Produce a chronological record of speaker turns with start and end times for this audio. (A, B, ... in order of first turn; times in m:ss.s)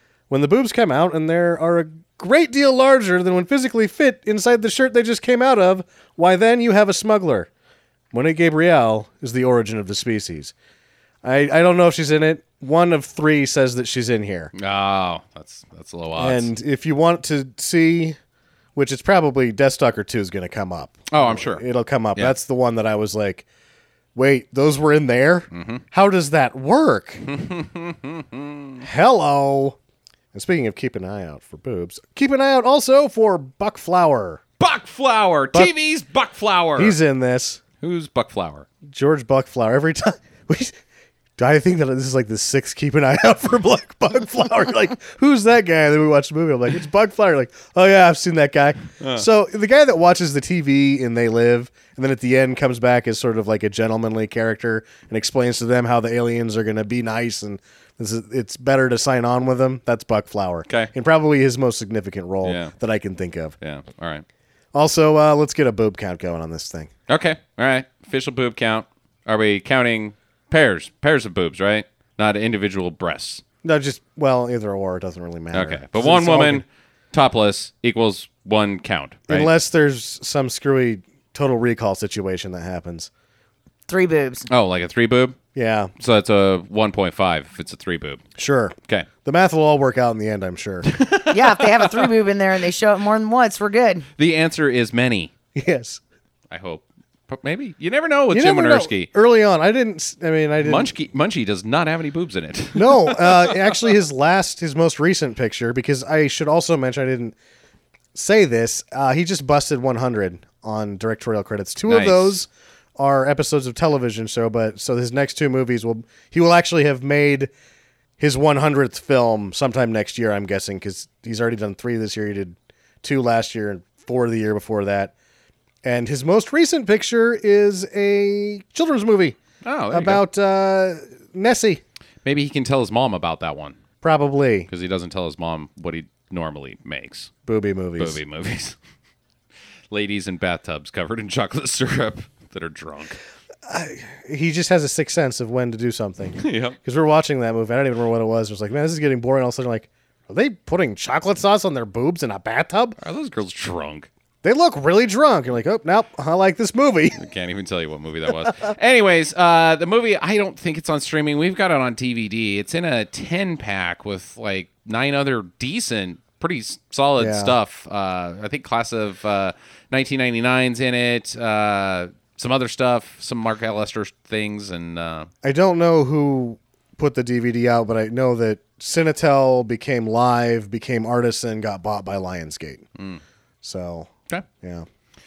0:00.3-0:07.5 A
0:08.1-0:10.5 A
0:11.2-0:14.5 A
0:14.5-0:16.5 B
0:16.2-0:18.2 A
0:18.7-0:23.4 A
0:21.1-0:21.6 B
0:24.1-0:27.2 A
0:25.5-0:25.8 B
0:27.2-0:28.8 B
0:28.8-0:29.8 A
0:30.3-0:34.4 A
0:34.6-0:37.0 B
0:36.8-0:37.6 A
0:37.8-0:38.7 B
0:38.9-0:40.7 A
0:41.4-1:03.5 A
1:02.4-1:02.8 B
1:03.6-1:04.2 B
1:04.7-1:06.9 A
1:07.1-1:13.4 B
1:13.6-1:16.6 A
1:15.5-1:19.5 B
1:19.3-1:23.1 A
1:23.9-1:24.5 C
1:24.5-1:25.4 B
1:25.5-1:25.9 A
1:26.0-1:28.2 B
1:28.4-1:30.9 A
1:30.9-1:32.1 B
1:31.3-1:34.0 C
1:34.2-1:35.3 B
1:35.5-1:36.0 A
1:36.5-1:39.1 B
1:38.3-1:40.9 A
1:40.6-1:43.8 B
1:42.7-1:47.4 A
1:48.1-1:57.5 A
1:51.9-1:52.3 B
1:58.2-2:05.1 A
2:05.8-2:09.4 A
2:09.6-2:10.2 B
2:09.9-2:11.8 A
2:12.2-2:13.8 B
2:14.0-2:14.7 A
2:14.7-2:17.3 B
2:17.4-2:18.2 A
2:18.0-2:18.8 B
2:19.9-2:23.2 B
2:23.6-2:33.0 A
2:26.4-2:26.8 B
2:33.0-2:34.1 B
2:34.4-2:37.2 A
2:37.2-2:55.3 B
2:47.2-2:47.6 A
2:55.4-3:02.8 A
3:03.6-3:04.1 A